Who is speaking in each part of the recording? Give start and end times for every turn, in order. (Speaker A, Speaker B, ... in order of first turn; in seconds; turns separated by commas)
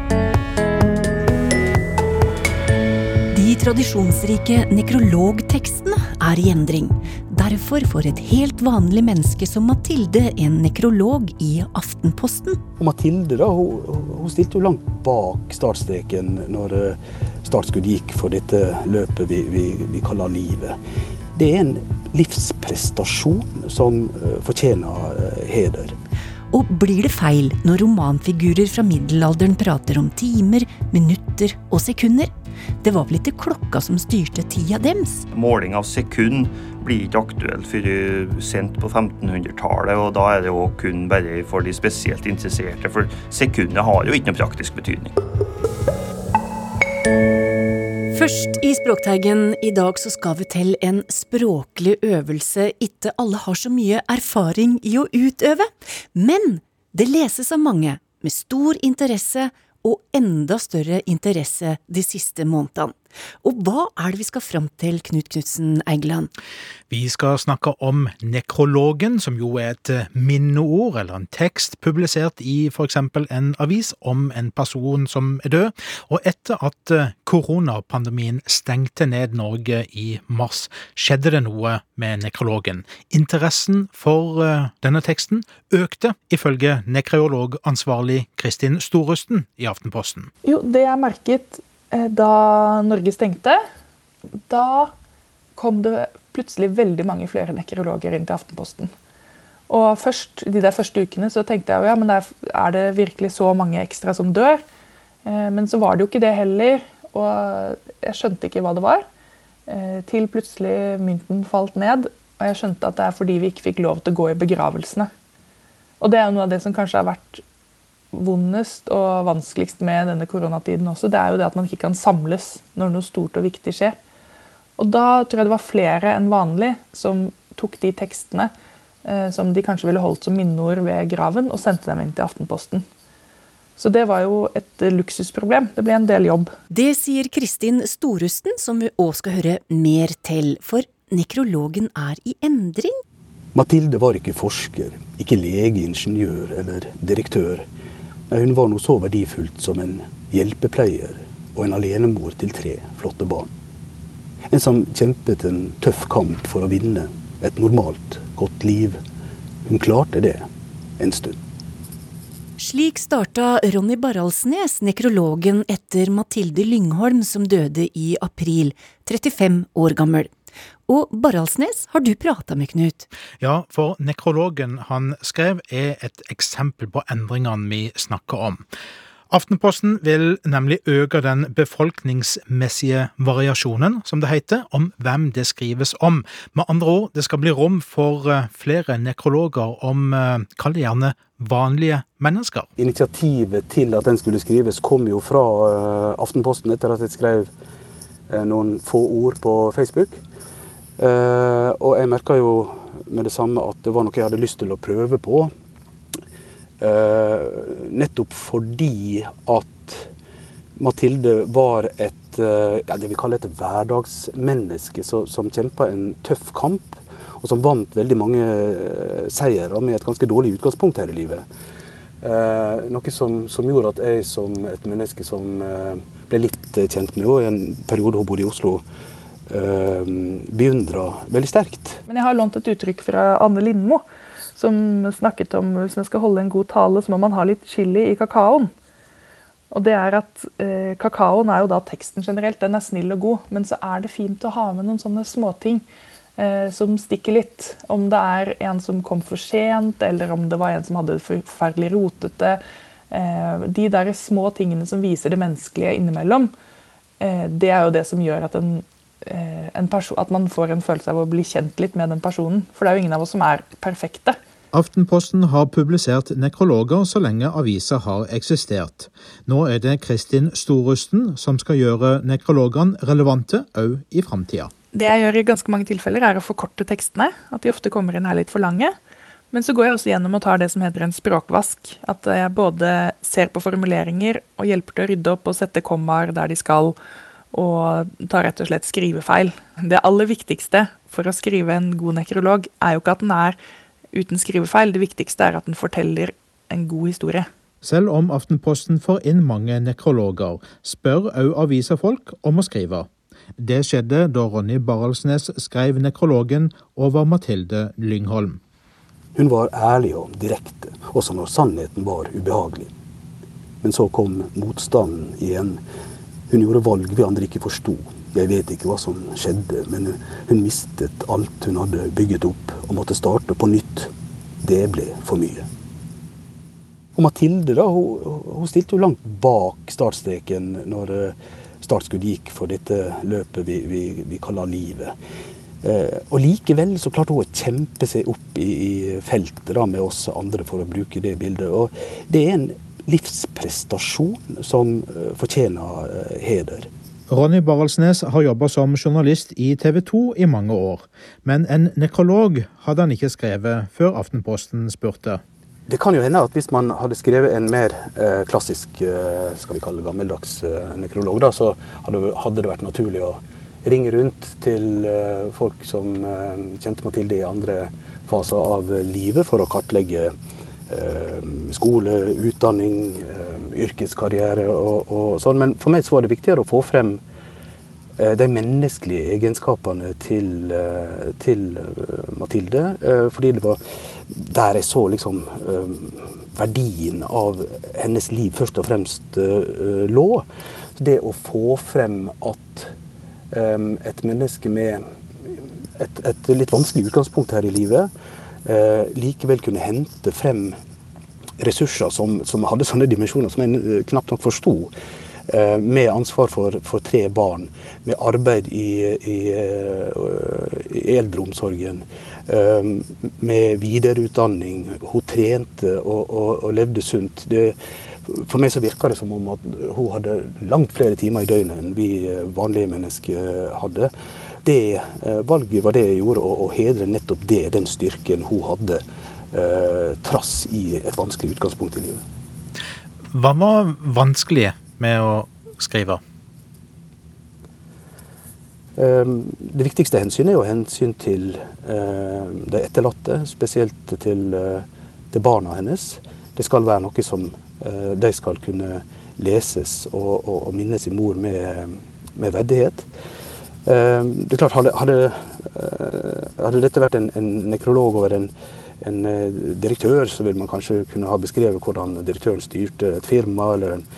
Speaker A: 3.3-12.6, Speaker B: 12.8-20.8, Speaker B: 21.3-25.9, Speaker A: 26.5-32.3, Speaker A: 32.8-35.3, Speaker C: 35.3-45.2, Speaker A: 48.1-66.3, Speaker D: 66.9-90.3, Speaker E: 90.4-93.6, Speaker E: 94.5-94.9, Speaker E: 95.6-98.9, Speaker E: 99.7-104.6, Speaker E: 105.2-109.0, Speaker E: 109.7-115.1, Speaker E: 116.0-117.4, Speaker E: 118.1-124.0, Speaker E: 124.8-128.5, Speaker E: 129.0-132.8, Speaker E: 133.8-136.5, Speaker A: 136.7-143.0, Speaker B: 143.5-147.7, Speaker B: 148.3-153.5, Speaker B: 154.5-159.0, Speaker B: 159.7-160.5, Speaker B: 161.0-161.4, Speaker A: 162.6-170.3, Speaker A: 170.9-173.1, Speaker D: 173.4-178.6, Speaker D: 179.3-192.7, Speaker B: 192.8-197.5, Speaker B: 198.3-200.2, Speaker B: 201.0-205.5, Speaker B: 206.8-210.1, Speaker B: 210.8-221.4, Speaker B: 222.2-228.8, Speaker B: 229.5-232.0, Speaker E: 232.1-234.0, Speaker E: 234.6-238.7, Speaker E: 239.7-245.8, Speaker E: 246.4-256.5, Speaker E: 257.2-264.4, Speaker D: 264.7-274.7, Speaker E: 274.9-278.9, Speaker E: 279.5-287.0, Speaker E: 287.5-293.6, Speaker E: 294.1-297.5, Speaker D: 297.8-308.6, Speaker B: 309.4-312.9, Speaker B: 313.8-315.8, Speaker B: 316.5-324.1, Speaker B: 324.6-325.7, Speaker B: 327.1-335.1, Speaker B: 335.8-346.9, Speaker D: 347.3-355.4, Speaker B: 355.9-370.3, Speaker B: 370.9-377.2, Speaker B: 378.2-390.4, Speaker B: 391.0-392.9, Speaker B: 393.5-398.1, Speaker B: 398.6-400.8, Speaker B: 401.6-404.9, Speaker B: 405.5-417.8, Speaker B: 418.3-424.1, Speaker B: 424.6-432.2, Speaker D: 433.3-436.2, Speaker B: 439.0-453.1, Speaker B: 453.9-464.0